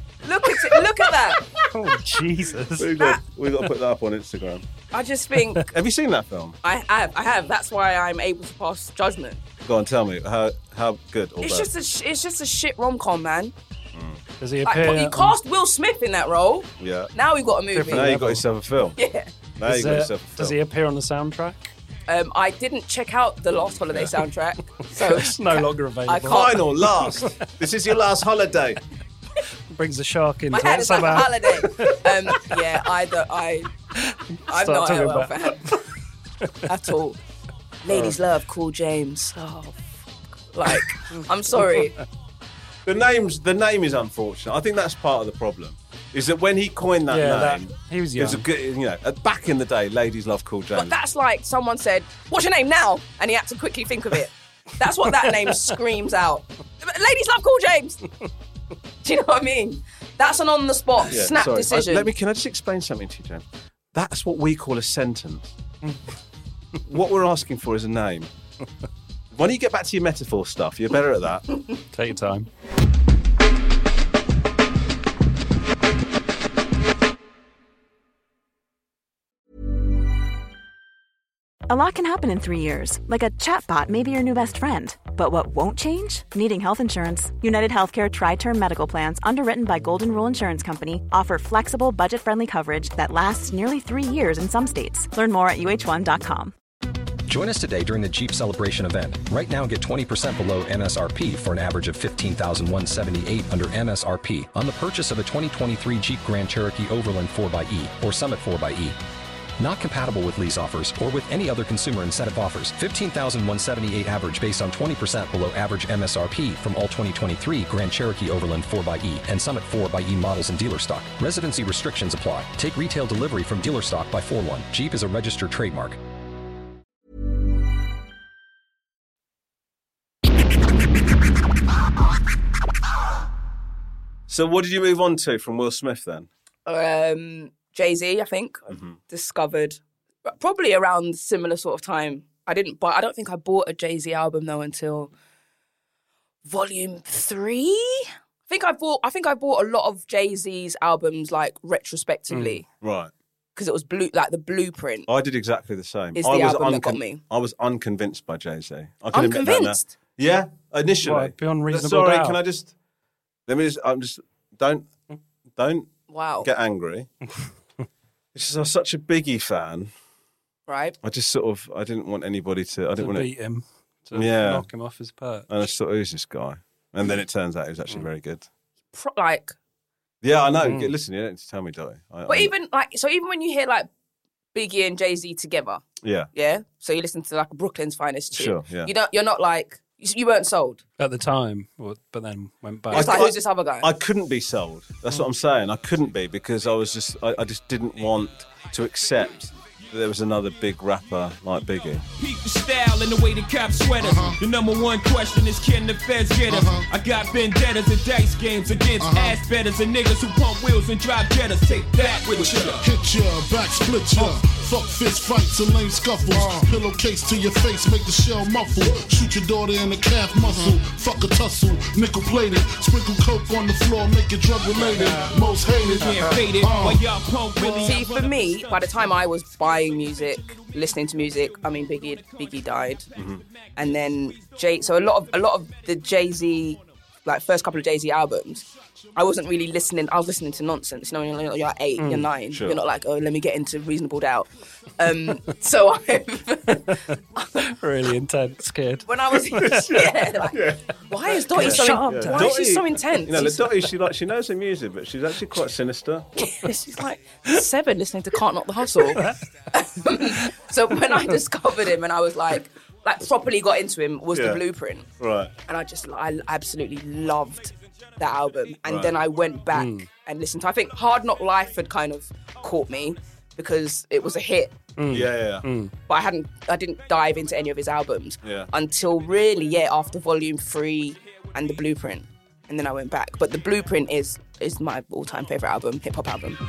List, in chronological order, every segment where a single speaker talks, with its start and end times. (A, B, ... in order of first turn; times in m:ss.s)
0:00.2-0:01.4 A
0:01.7-0:03.0 B
0:02.7-0:04.6 C
0:04.9-0:05.7 A
0:05.7-0:06.6 C
0:06.6-0:09.4 A
0:09.6-0:11.7 C
0:11.4-0:13.5 A
0:13.9-0:14.2 C
0:14.4-0:15.4 B
0:14.6-0:18.1 A
0:16.8-0:17.1 C
0:17.7-0:18.4 B
0:17.9-0:19.0 C
0:19.0-0:19.3 A
0:19.6-0:20.6 C
0:19.6-0:21.7 B
0:22.1-0:26.6 A
0:23.8-0:24.1 C
0:24.8-0:27.5 B
0:26.2-0:28.8 C
0:29.7-0:32.6 B
0:30.5-0:33.7 A
0:34.0-0:35.8 B
0:34.5-0:35.8 A
0:36.6-0:37.2 A
0:37.8-0:41.9 A
0:42.8-0:51.0 C
0:47.1-0:48.4 B
0:50.7-0:58.0 A
0:55.2-0:55.6 B
0:59.0-1:02.1 A
1:01.1-1:05.6 C
1:06.8-1:08.3 C
1:09.3-1:11.5 C
1:11.9-1:12.5 B
1:21.7-1:36.5 D
1:37.3-1:49.0 E
1:49.6-2:06.0 E
2:14.3-2:16.3 C
2:16.6-2:25.1 A
2:18.7-2:19.0 C
2:26.4-2:32.6 A
2:32.3-2:32.6 B
2:32.8-2:33.1 C
2:33.6-2:35.1 A
2:35.1-2:42.7 C
2:36.2-2:37.2 A
2:39.1-2:39.9 A
2:41.0-2:42.4 B
2:43.5-2:44.9 C
2:45.6-2:45.9 C
2:46.1-2:46.5 A
2:46.4-2:47.1 C
2:48.3-2:49.9 C
2:50.7-2:51.0 A
2:51.0-2:53.3 C
2:53.0-2:55.6 B
2:54.1-2:54.7 C
2:55.5-2:58.4 C
2:58.9-2:59.6 A
3:00.2-3:02.5 C
3:00.6-3:00.9 B
3:02.3-3:03.9 A
3:04.5-3:10.8 A
3:06.0-3:06.3 C
3:08.3-3:08.9 C
3:11.0-3:13.3 B
3:12.9-3:22.0 C
3:12.9-3:13.9 A
3:22.2-3:32.8 F
3:24.0-3:24.4 G
3:26.5-3:26.9 G
3:29.0-3:29.4 G
3:32.4-3:47.0 G
3:46.0-3:48.4 F
3:47.8-3:53.1 A
3:53.1-3:53.4 C
3:53.8-4:07.6 A
4:02.0-4:02.3 B
4:02.5-4:02.8 C
4:06.9-4:10.1 B
4:09.0-4:13.7 A
4:09.6-4:10.9 C
4:11.5-4:16.3 C
4:11.5-4:12.5 B
4:16.4-4:25.0 A
4:24.3-4:24.6 C
4:25.2-4:25.5 C
4:25.7-4:34.8 A
4:28.8-4:29.2 C
4:29.7-4:30.1 B
4:35.0-4:35.9 B
4:35.1-4:35.6 C
4:36.1-4:46.6 A
4:38.4-4:38.7 C